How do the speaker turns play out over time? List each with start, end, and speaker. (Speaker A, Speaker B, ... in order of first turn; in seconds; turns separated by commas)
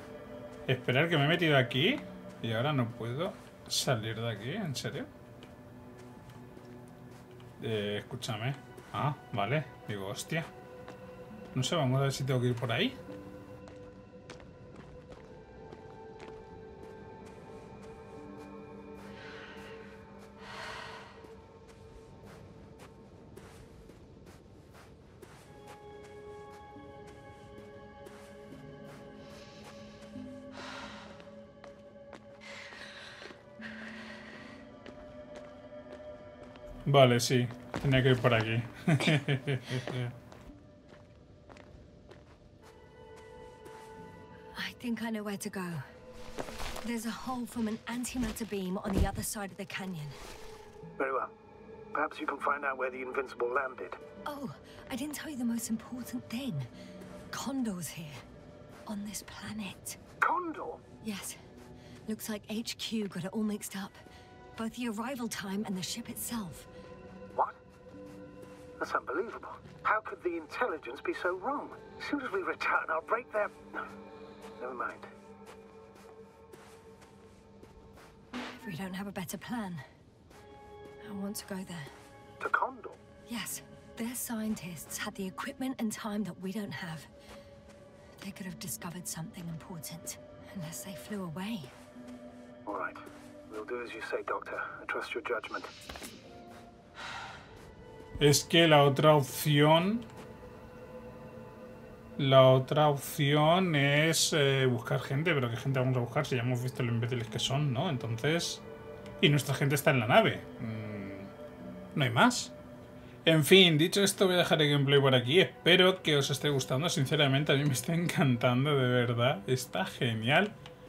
Speaker A: 0.7-5.1, Speaker A: 7.6-10.5, Speaker A: 11.5-13.0, Speaker A: 36.9-40.1, Speaker B: 44.5-45.8, Speaker B: 46.8-50.2, Speaker C: 51.0-51.3, Speaker C: 51.9-54.0, Speaker B: 54.2-56.7, Speaker B: 57.3-58.2, Speaker B: 58.9-60.0, Speaker C: 60.2-60.8, Speaker B: 61.0-61.4, Speaker B: 62.1-64.0, Speaker B: 64.5-66.7, Speaker C: 68.8-73.9, Speaker C: 74.6-75.1, Speaker B: 78.6-79.8, Speaker B: 81.0-81.9, Speaker C: 82.4-83.0, Speaker B: 83.3-87.1, Speaker B: 88.2-91.7, Speaker C: 92.6-95.7, Speaker A: 98.2-100.0, Speaker A: 102.2-108.6, Speaker A: 109.2-111.3, Speaker A: 111.9-112.5, Speaker A: 113.2-120.5